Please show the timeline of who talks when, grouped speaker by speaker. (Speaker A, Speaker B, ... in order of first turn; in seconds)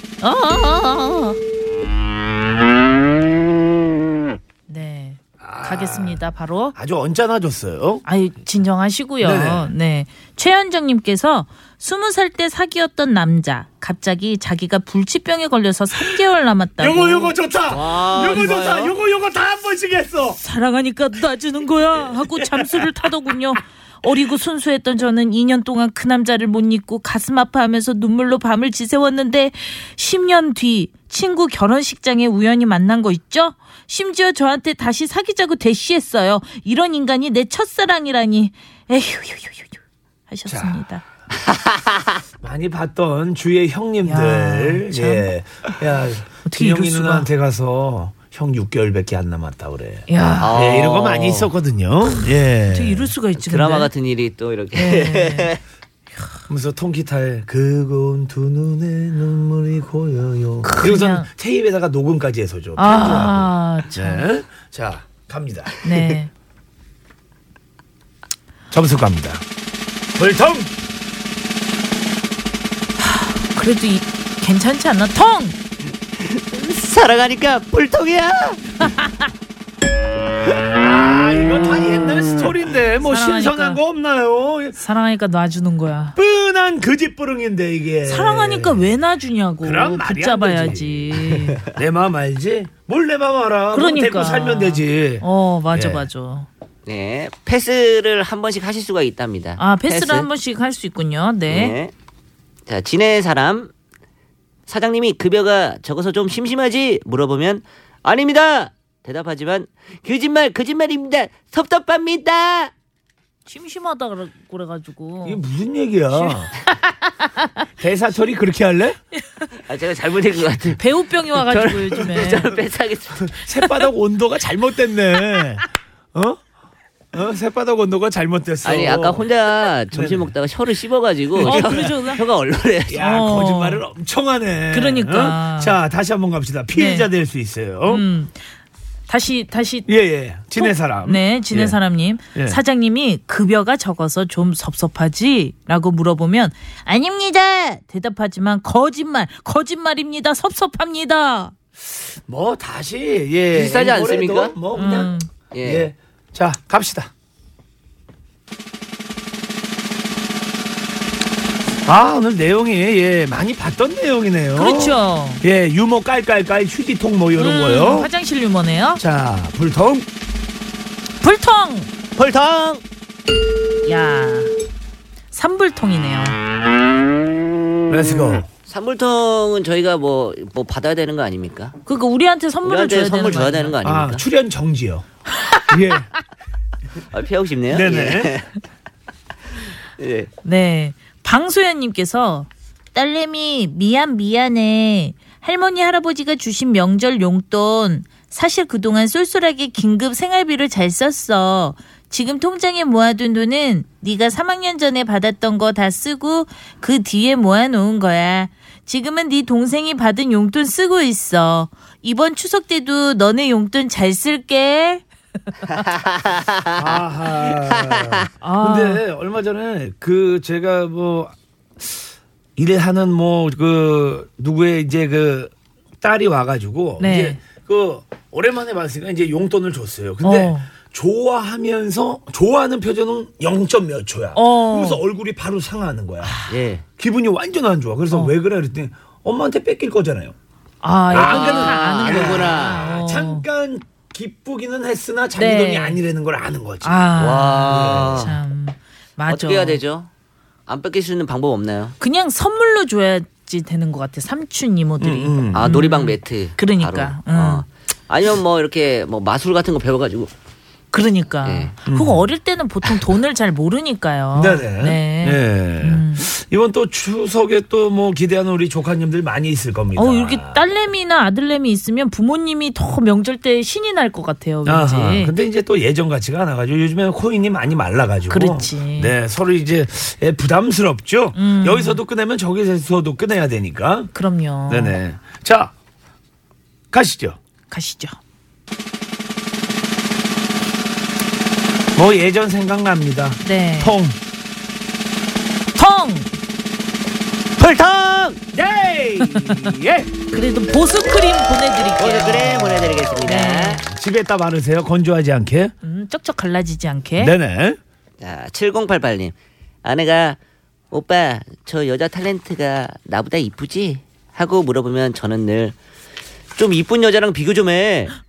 Speaker A: 0.2-1.2, 4.7-6.7, 8.0-17.3, 20.4-41.0, 44.0-45.3, 46.4-47.3, 50.1-50.5, 52.6-53.9, 54.7-55.5, 60.6-61.3, 62.8-64.3, 65.8-66.3, 73.0-75.6, 78.8-79.2, 83.0-83.8, 84.8-86.2, 88.0-91.6, 93.7-96.5, 99.6-101.8, 113.5-115.4, 116.1-117.5, 120.8-122.6, 131.4-132.2, 133.0-133.8, 134.7-135.8, 136.7-137.1, 137.8-138.4, 139.1-139.9, 140.5-151.5, 154.7-155.3, 164.5-165.4, 167.3-169.0, 171.2-172.0, 173.8-174.5, 175.3-176.4, 181.8-183.8, 190.4-215.0, 218.4-219.0, 227.0-227.4, 230.2-230.7, 234.3-235.0, 236.2-236.5, 240.8-243.4, 245.3-246.0, 246.8-249.8, 252.0-257.6, 260.9-266.2, 269.9-275.3, 278.3-279.1, 281.4-282.0, 284.1-285.0, 287.7-288.1, 293.4-294.0, 295.8-296.3, 299.2-299.6, 300.3-303.8, 305.8-307.3
Speaker B: 0.9-1.3, 17.7-18.9, 41.4-42.0, 50.4-51.5, 53.3-55.6, 76.2-78.6, 96.8-100.3, 101.5-101.9, 102.7-103.7, 104.7-112.7, 119.6-120.8, 121.3-123.4, 128.6-133.1, 153.5-154.6, 155.5-155.9, 172.1-172.8, 178.7-181.8, 182.6-184.2, 187.1-188.5, 190.0-190.3, 215.7-216.9, 217.5-218.2, 236.5-236.8, 241.1-242.9, 247.2-248.4, 249.3-250.1, 250.7-251.9, 255.5-260.3, 261.4-261.8, 297.6-298.4, 301.9-303.8, 308.2-310.4, 310.9-315.8, 316.5-318.1
Speaker C: 5.4-6.2, 6.7-8.0, 9.2-9.7, 15.9-16.2, 16.8-20.4, 21.9-23.2, 40.5-40.8, 42.4-53.1, 56.5-65.8, 68.7-69.4, 70.1-70.7, 80.7-84.8, 86.2-88.9, 89.6-96.1, 115.2-116.5, 117.8-119.0, 123.2-126.4, 127.1-129.3, 129.9-130.3, 131.3-132.1, 132.9-138.0, 139.9-141.8, 142.3-142.6, 151.8-157.1, 161.8-168.1, 169.0-170.1, 177.9-178.5, 183.8-185.0, 185.7-186.1, 187.7-188.3, 216.8-222.0, 222.6-236.4, 237.0-240.3, 241.1-247.2, 247.7-248.3, 255.0-255.7, 261.9-262.2, 264.3-270.6, 274.6-284.1, 284.7-285.7, 286.9-287.4, 291.9-294.2, 298.5-300.1, 303.8-305.7, 307.2-307.8